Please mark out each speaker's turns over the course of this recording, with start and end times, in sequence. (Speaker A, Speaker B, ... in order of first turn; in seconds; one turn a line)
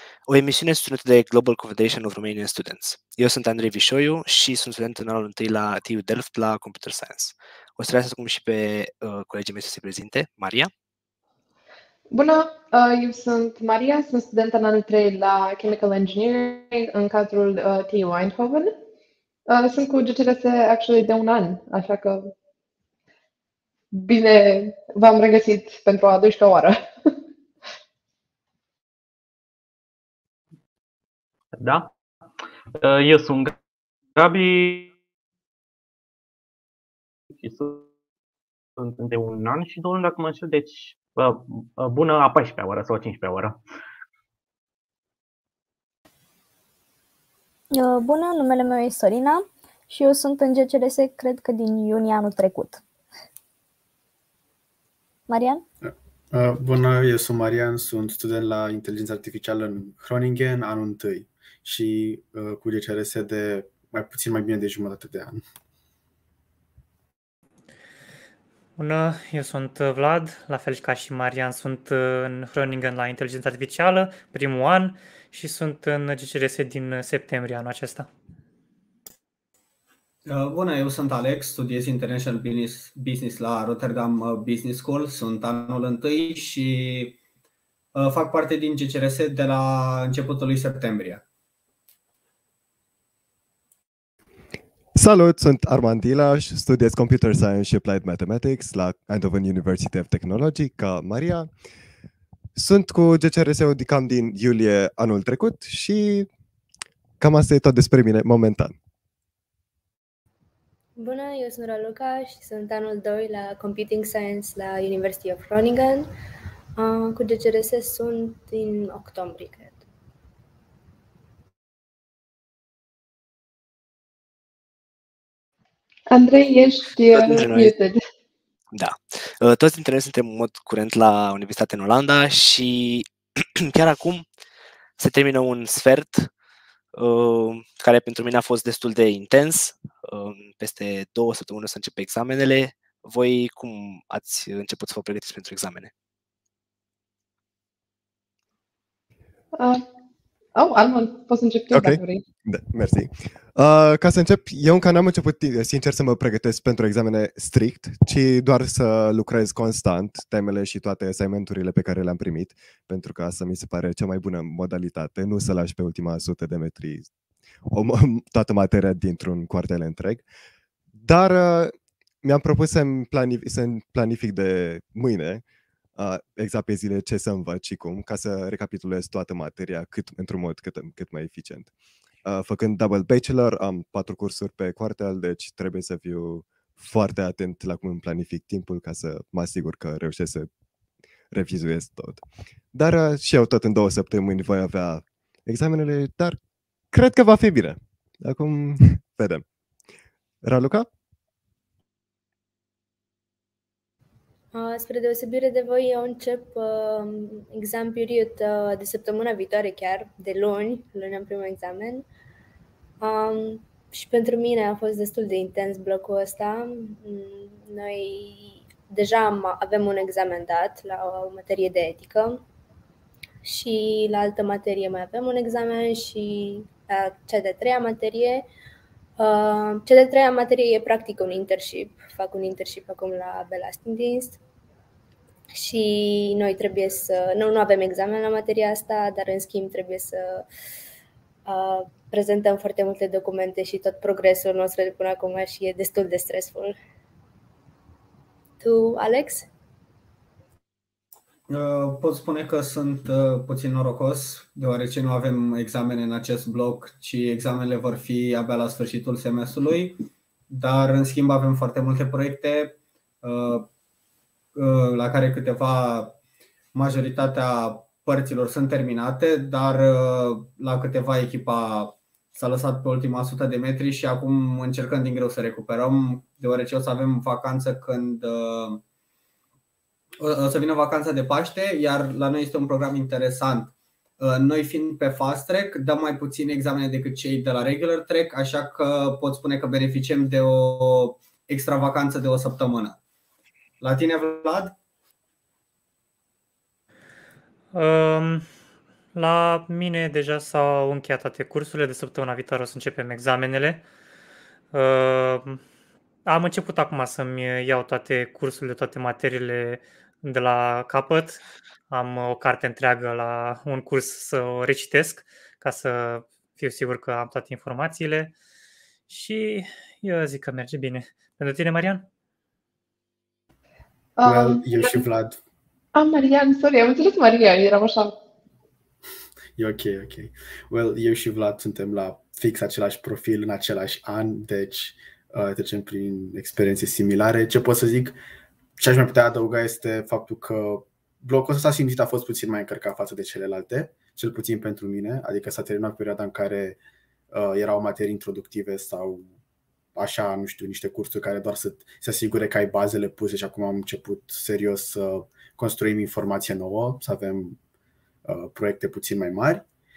Speaker A: 0.3-10.7
Speaker B: 12.1-18.8
Speaker B: 19.5-22.3
Speaker B: 23.9-27.1
Speaker C: 31.6-31.9
Speaker C: 32.7-33.6
Speaker C: 34.2-34.9
Speaker C: 37.4-37.9
Speaker C: 38.8-43.6
Speaker D: 47.7-52.8
Speaker D: 55.3-55.6
Speaker E: 55.8-65.4
Speaker F: 68.8-78.1
Speaker G: 80.3-87.2
Speaker G: 88.0-91.2
Speaker H: 95.0-101.5
Speaker H: 102.5-106.3
Speaker H: 107.2-108.8
Speaker I: 111.0-116.1
Speaker I: 116.8-119.9
Speaker B: 126.1-128.0
Speaker A: 127.1-127.7
Speaker A: 128.7-134.3
Speaker A: 135.0-136.3
Speaker A: 137.0-145.9
Speaker B: 149.6-149.8
Speaker B: 150.6-152.2
Speaker H: 151.7-167.1
Speaker H: 167.7-170.2
Speaker H: 170.9-175.4
Speaker H: 176.0-181.7
Speaker H: 182.2-190.5
Speaker H: 191.3-196.4
Speaker H: 196.9-199.4
Speaker H: 200.4-200.9
Speaker I: 204.5-212.1
Speaker I: 213.0-222.4
Speaker I: 223.4-228.5
Speaker I: 229.2-234.4
Speaker I: 235.6-240.5
Speaker I: 241.5-246.8
Speaker I: 248.6-249.5
Speaker G: 251.5-263.7
Speaker G: 264.6-266.2
Speaker G: 266.7-278.8
Speaker G: 280.2-293.0
Speaker G: 293.8-294.8
Speaker F: 297.7-298.5
Speaker F: 299.1-303.9
Speaker F: 304.7-305.6
Speaker F: 306.3-318.3
Speaker F: 319.1-322.1
Speaker B: 324.2-325.0
Speaker E: 324.2-325.4
Speaker B: 325.9-328.2
Speaker E: 329.6-338.2
Speaker E: 338.8-346.8
Speaker E: 347.3-349.3
Speaker E: 350.0-357.6
Speaker E: 358.2-359.6